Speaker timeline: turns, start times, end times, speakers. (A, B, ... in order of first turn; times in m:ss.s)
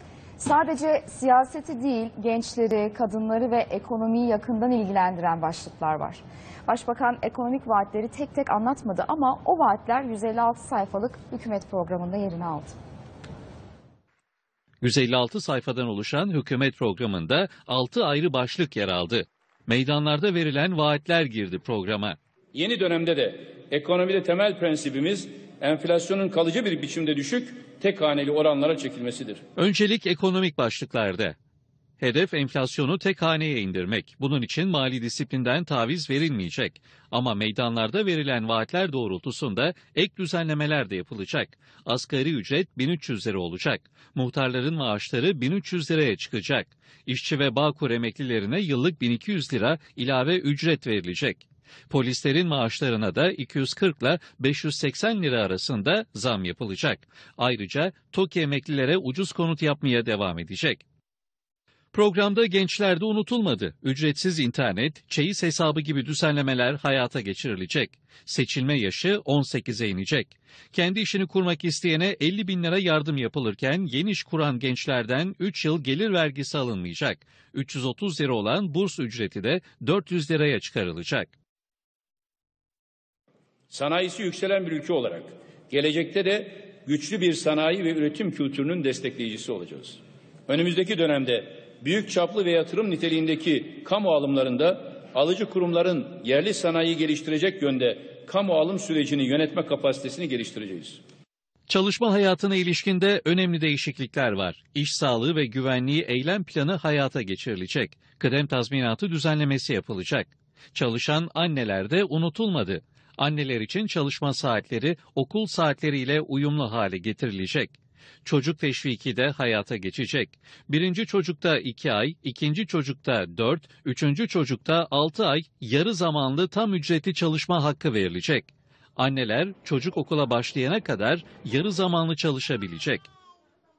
0:00.4-0:12.7 A
0:14.8-0:22.2 B
0:22.5-0:29.4 C
0:29.6-0:31.3 B
0:32.0-1:00.8 B
1:01.9-1:21.3 B
1:23.7-1:41.0 C
1:41.7-2:13.1 B